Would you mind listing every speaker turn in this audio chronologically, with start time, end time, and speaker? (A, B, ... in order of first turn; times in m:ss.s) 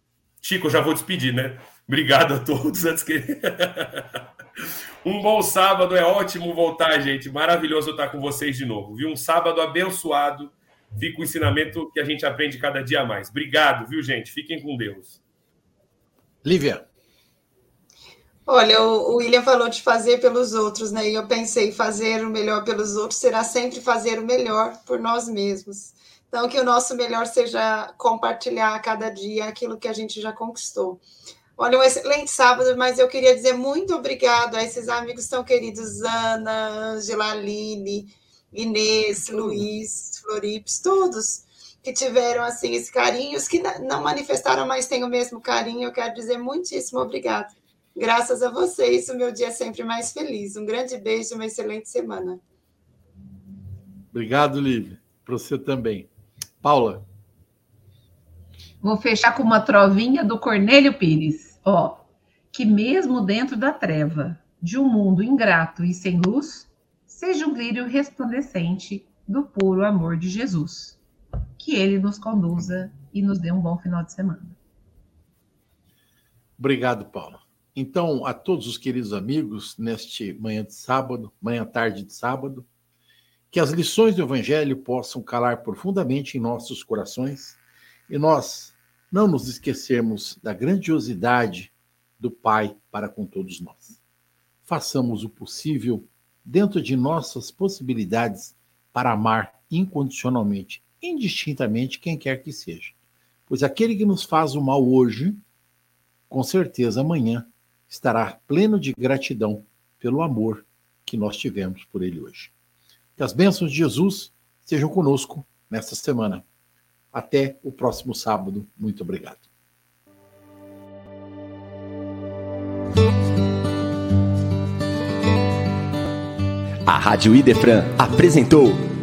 0:00.4-0:04.2 A
0:05.0-0:15.2 A
0:16.4-0:16.8 B
0:18.5-0:31.0 C
0:31.6-0:52.4 C
0:54.1-0:56.1 B
0:56.6-0:57.0 B
0:58.8-1:11.0 D
1:11.6-1:14.6 D
1:16.6-1:22.7 B
1:23.5-1:27.6 B
1:28.1-1:34.0 B
1:34.7-1:42.9 B
1:43.5-1:45.4 B
1:46.3-1:52.5 B
1:53.2-1:56.4 B
1:57.1-1:59.5 B
2:06.9-2:08.8 E